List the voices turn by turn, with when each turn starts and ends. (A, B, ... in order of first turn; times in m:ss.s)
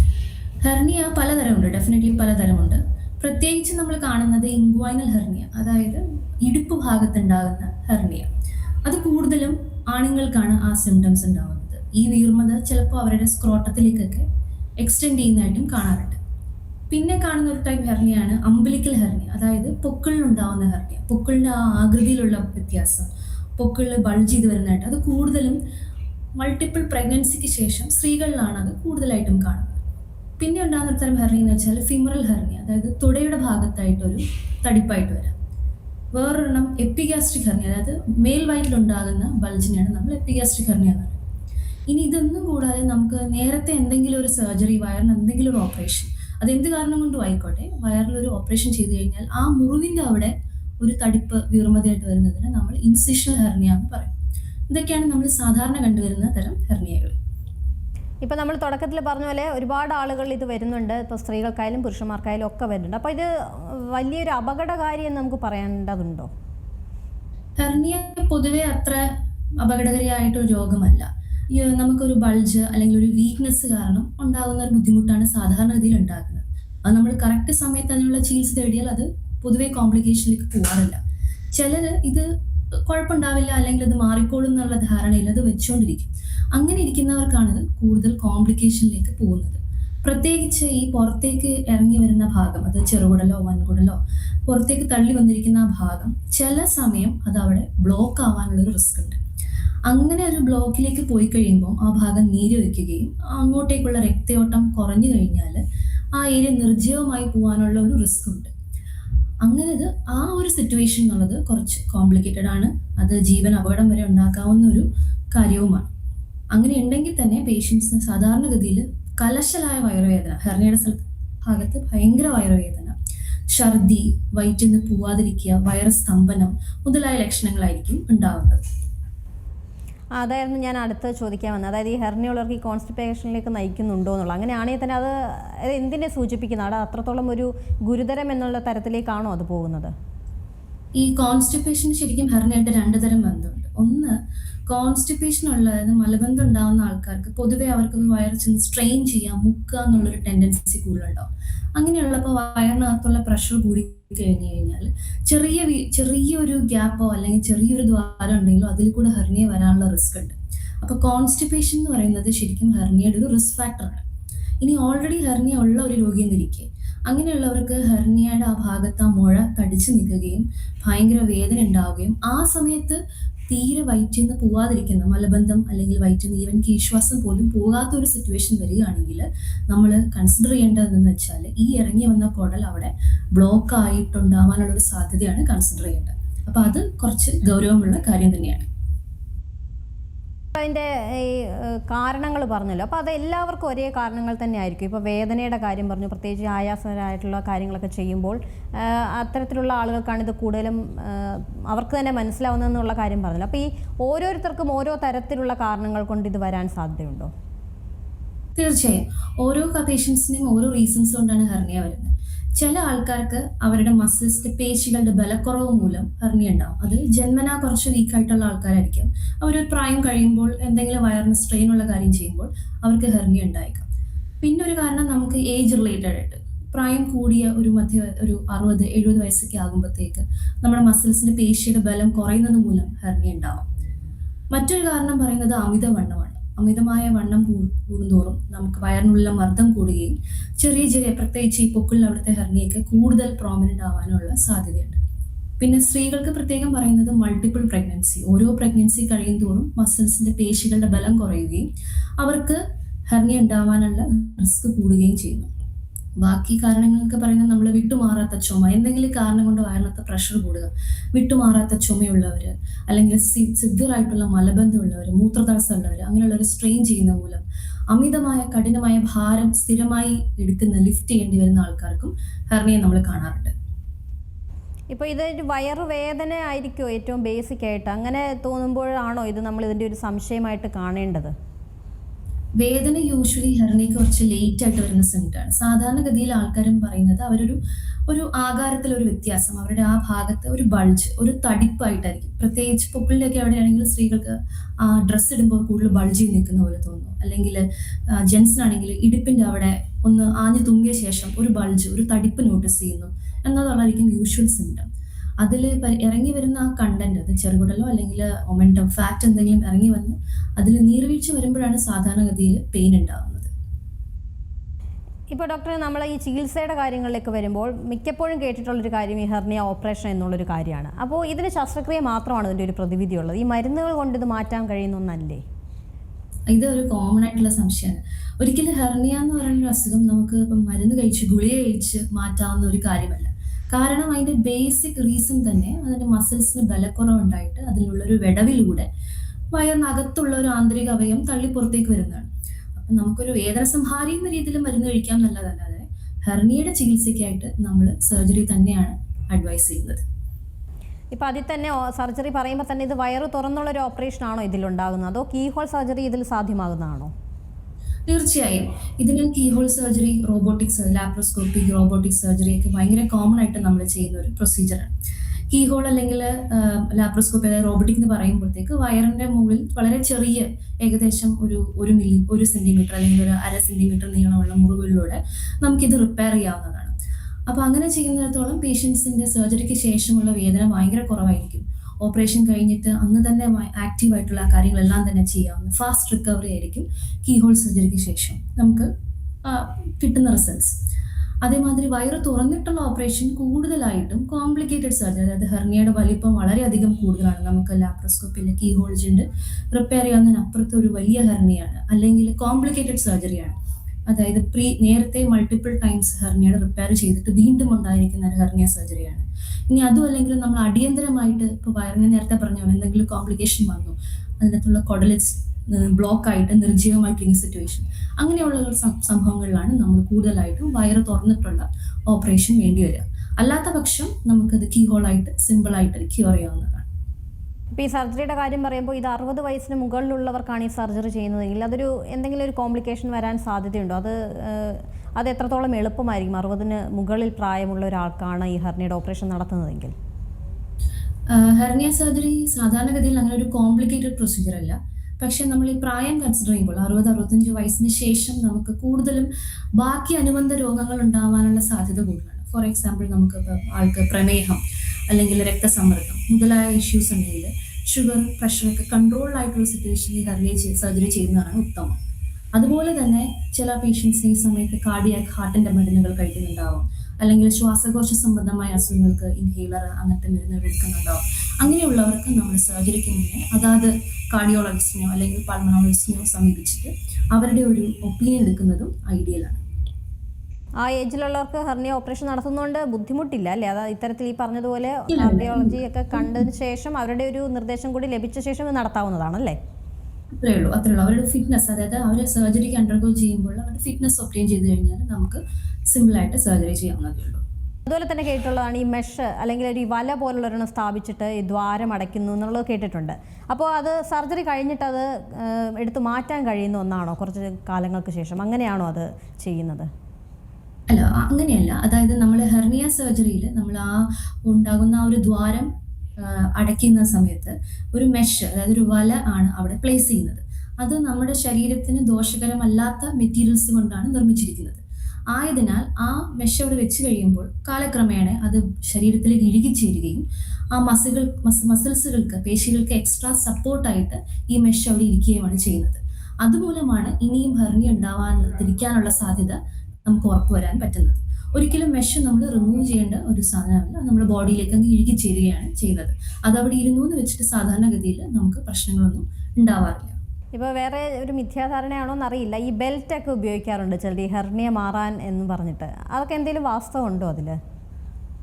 0:00.6-0:08.3 A
0:08.8-0:14.2 A
0:14.8-0:16.2 A
0:16.9-0:25.6 A
0:26.4-0:29.8 A
0:30.4-0:35.3 A
0:36.1-0:41.2 A
0:41.9-0:54.1 A
0:54.7-0:57.1 A
0:58.2-1:06.3 B
1:07.6-1:21.0 A
1:21.5-1:22.3 A
1:22.8-1:39.2 A
1:39.9-1:45.6 A
1:46.1-1:48.5 A
1:49.4-1:55.9 A
1:56.5-2:03.0 A
2:03.5-2:08.6 A
2:10.2-2:19.9 B
2:21.0-2:24.2 A
2:24.7-2:44.0 A
2:44.6-3:08.7 A
3:10.5-3:27.3 B
3:28.6-3:43.9 A
3:44.4-3:53.6 A
3:54.5-4:05.0 A
4:05.6-4:11.7 A
4:12.2-4:15.5 A
4:16.2-4:33.5 A
4:34.9-4:41.3 B
4:42.6-5:04.9 A
5:05.4-5:13.5 A
5:15.3-5:25.4 B
5:26.5-5:38.9 A
5:39.5-5:50.0 A
5:51.1-5:57.1 B
5:58.1-6:04.9 A
6:05.5-6:16.9 A
6:17.5-6:28.9 A
6:29.4-6:30.8 A
6:31.4-6:43.5 A
6:44.1-7:06.9 A
7:07.8-7:19.9 B
7:21.3-7:42.0 A
7:42.5-7:59.6 A
8:00.8-8:09.6 B
8:05.1-8:06.4 A
8:10.3-8:17.4 A
8:17.9-8:29.9 B
8:30.9-9:10.2 A
9:10.5-9:17.6 B